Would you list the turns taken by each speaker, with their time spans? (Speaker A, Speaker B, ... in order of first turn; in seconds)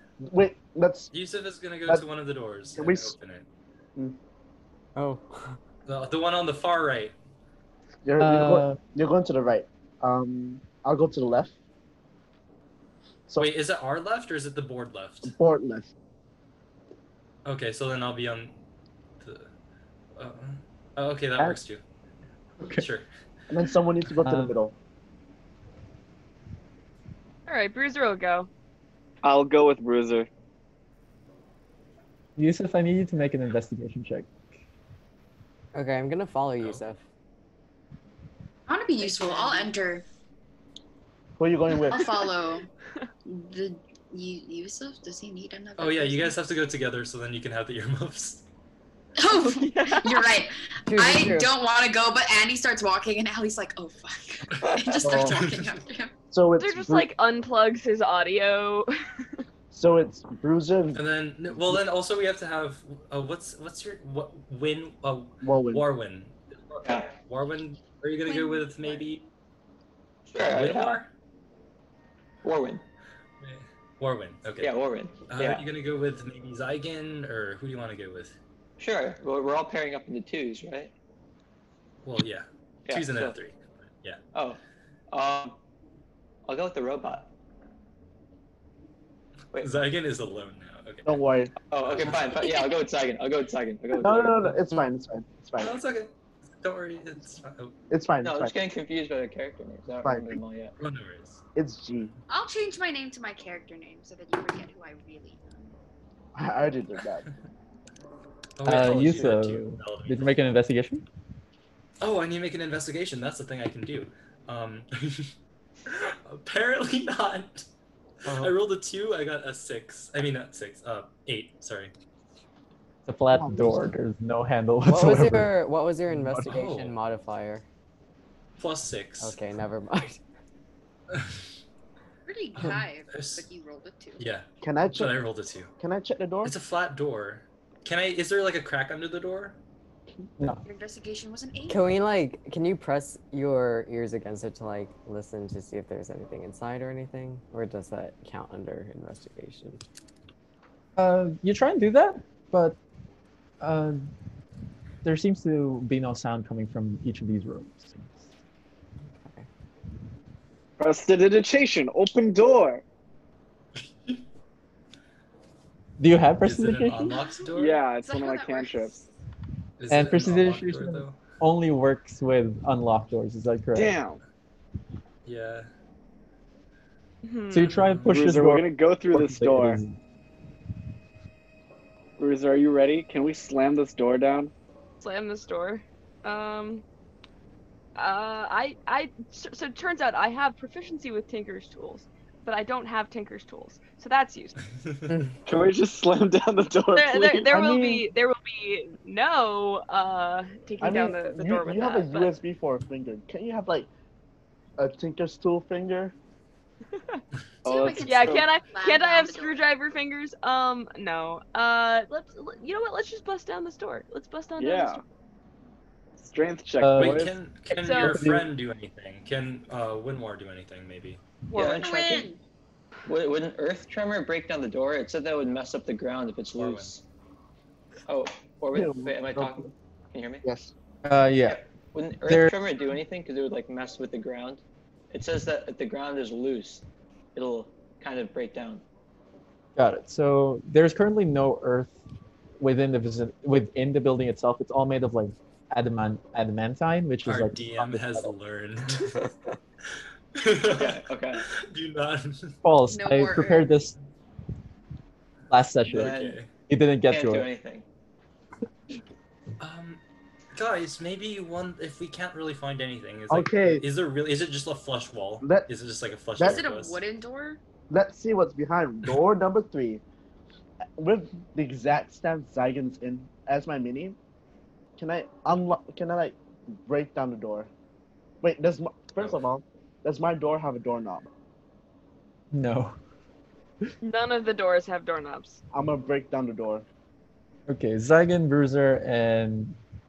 Speaker A: 0.2-1.1, 2.8-3.1, 8.0-11.5, 15.2-15.9, 23.5-24.7, 41.4-42.2, 55.0-55.4, 56.3-57.1, 59.7-61.0, 61.5-61.8, 65.4-65.8, 91.0-91.5, 93.9-95.7, 97.9-98.5, 100.0-100.4, 101.5-102.1, 106.3-107.2, 123.3-123.9, 134.6-135.2, 135.8-136.5, 197.4-198.0, 200.8-203.9, 204.8-206.1, 228.7-229.7, 230.4-230.7, 263.3-263.8, 265.4-265.7, 267.9-270.0, 271.0-274.2, 275.0-277.7, 278.4-281.3, 285.7-286.8
Speaker B: 1.1-3.5, 5.8-7.1, 13.4-15.3, 17.4-18.5, 19.2-19.5, 20.2-21.8, 22.7-23.1, 45.8-48.4, 54.5-55.8, 60.9-69.2, 70.3-71.1, 73.4-74.7, 75.3-78.3, 82.0-84.2, 89.5-91.1, 91.9-92.2, 95.6-97.7, 100.8-101.4, 108.6-110.3, 112.0-115.3, 115.9-117.7, 118.3-121.9, 126.5-127.0, 128.6-129.4, 131.1-131.4, 132.6-133.4, 134.2-135.7, 136.4-139.6, 166.4-167.8, 169.8-171.2, 175.2-175.7, 177.7-178.2, 217.0-221.2, 226.6-226.9, 247.2-249.3, 250.3-252.6, 255.9-256.5, 259.6-260.0, 260.5-267.0
Speaker C: 5.0-5.6, 35.7-37.0, 50.9-51.5, 124.8-127.6, 129.2-130.2, 141.7-149.8, 159.2-159.4, 195.1-195.3
Speaker D: 8.2-8.8, 22.6-22.9, 24.2-24.6, 32.4-34.3, 108.6-111.0, 123.1-125.5, 126.1-126.6, 151.0-152.8, 153.6-154.0, 155.0-158.2, 166.0-167.2, 169.9-173.9, 177.5-180.0, 216.8-217.3, 217.8-218.5, 231.0-231.6, 232.2-232.6, 239.8-242.0, 242.6-248.3, 252.6-253.9, 255.5-256.2, 256.7-257.5, 282.5-282.9, 287.7-289.8
Speaker E: 27.5-28.5, 39.1-39.7, 49.3-50.2, 56.6-58.9, 177.2-177.7, 185.0-186.8, 187.9-194.5, 196.9-202.4, 208.0-215.0, 217.8-218.2, 221.5-221.9, 284.0-285.6
Speaker F: 29.2-30.3, 160.8-162.8, 167.5-169.0, 173.7-174.2, 178.1-179.8, 182.2-184.5, 195.4-197.5, 207.6-208.4, 214.6-215.0, 216.2-217.3
Speaker G: 38.7-40.0, 41.9-42.7, 43.2-46.4, 49.1-56.1, 68.2-69.0, 92.3-92.7, 102.3-105.4, 132.2-134.2, 140.6-141.9, 167.9-169.0, 207.6-209.6, 221.7-222.4, 252.9-253.7, 266.4-267.6
Speaker H: 54.6-55.0, 66.8-67.1, 70.3-71.0, 72.4-72.8, 74.6-75.6, 78.8-80.9, 83.0-83.3, 84.3-84.6, 85.1-85.5, 86.5-87.3, 91.7-94.5, 98.2-100.7, 221.5-222.3, 223.1-227.0, 228.1-230.4, 231.4-236.8, 237.3-238.8, 250.7-251.4, 255.9-256.4, 257.1-257.9